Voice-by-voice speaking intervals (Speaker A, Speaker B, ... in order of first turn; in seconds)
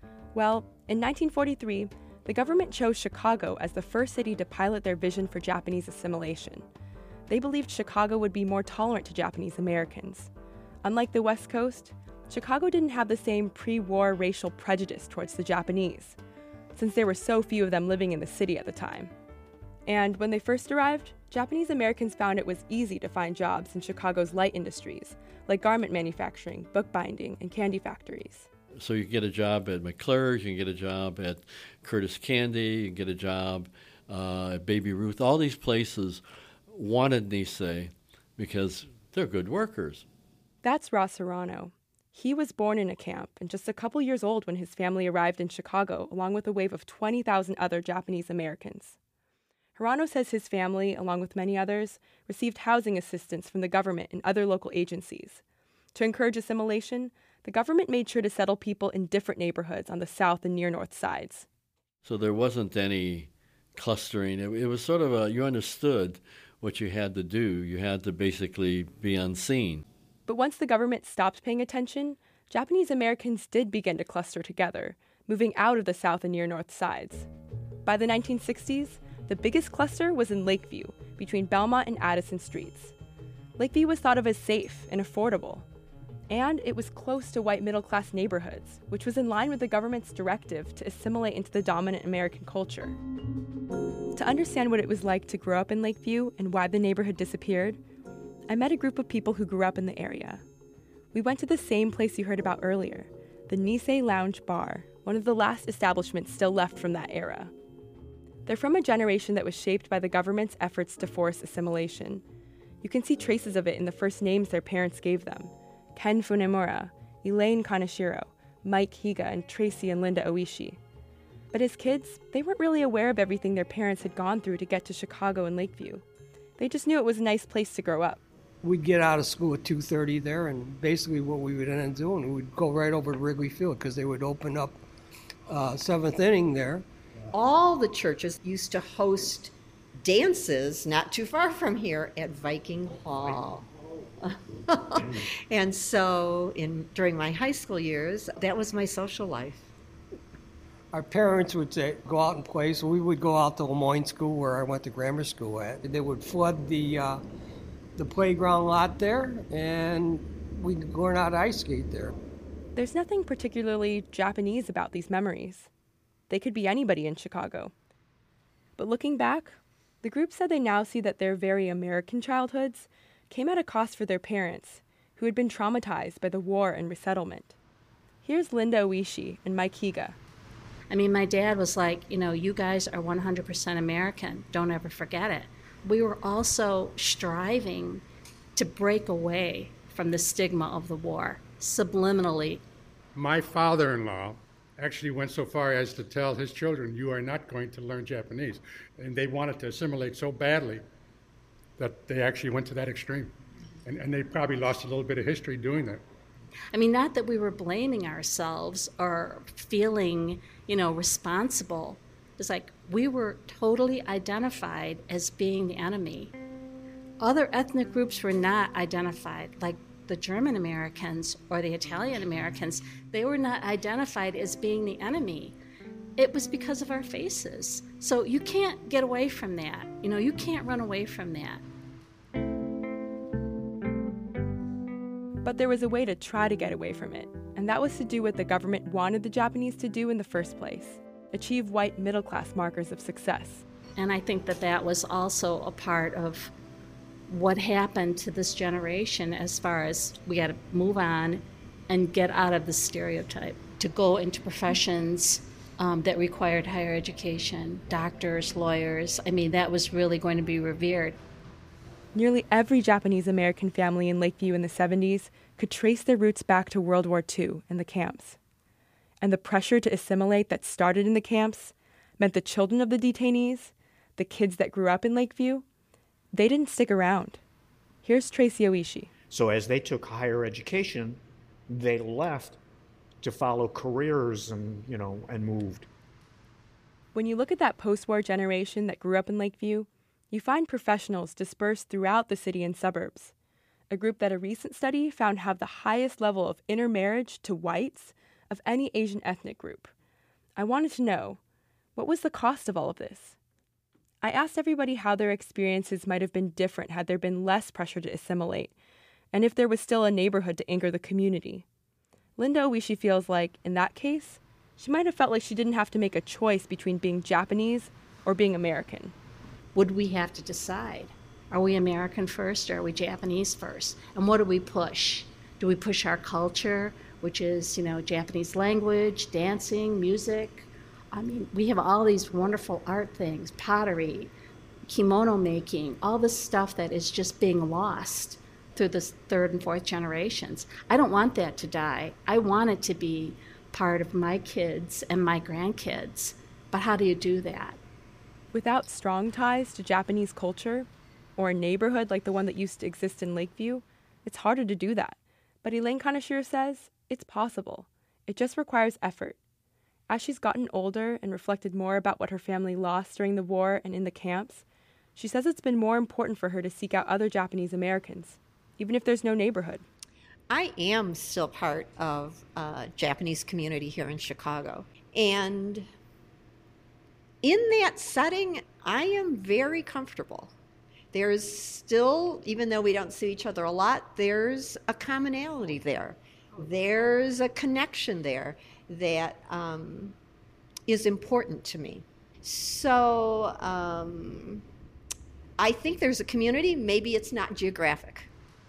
Speaker A: 0.3-6.7, 7.3-10.3, 10.8-16.2, 16.7-19.1, 19.9-28.5, 40.6-49.0, 49.8-55.4, 55.9-61.5, 70.3-77.3, 77.8-82.9, 83.6-85.7, 86.3-93.0, 94.1-97.8, 98.5-100.4, 101.1-107.5, 108.5-112.2, 112.8-120.8, 121.5-126.0, 126.6-128.2, 162.7-165.7, 166.3-167.7, 168.8-177.6, 178.2-180.2, 235.4-243.6, 262.1-268.4, 269.2-275.6, 276.3-277.4, 278.0-279.1, 287.1-293.3, 293.9-299.9, 300.6-301.4, 301.9-303.4, 304.2-308.7, 309.3-311.6, 312.4-319.1, 348.5-359.4, 360.1-364.6, 365.1-369.9
Speaker B: 28.7-40.0, 62.0-69.8
Speaker C: 128.6-134.8, 135.5-136.8, 150.9-157.2, 158.0-162.1
Speaker D: 137.3-143.7, 144.2-149.7, 370.5-375.9, 377.4-380.5, 381.1-390.1, 390.9-394.6, 395.6-398.3
Speaker E: 180.9-188.0, 188.6-192.6, 206.7-216.2, 217.2-225.5, 226.2-231.4, 244.2-246.3, 247.3-251.2, 251.9-255.1, 255.8-257.6, 258.1-261.1, 319.8-334.3, 334.9-347.8
Speaker F: 193.1-200.8, 201.8-203.3, 203.8-206.0
Speaker G: 279.3-282.6, 283.2-285.9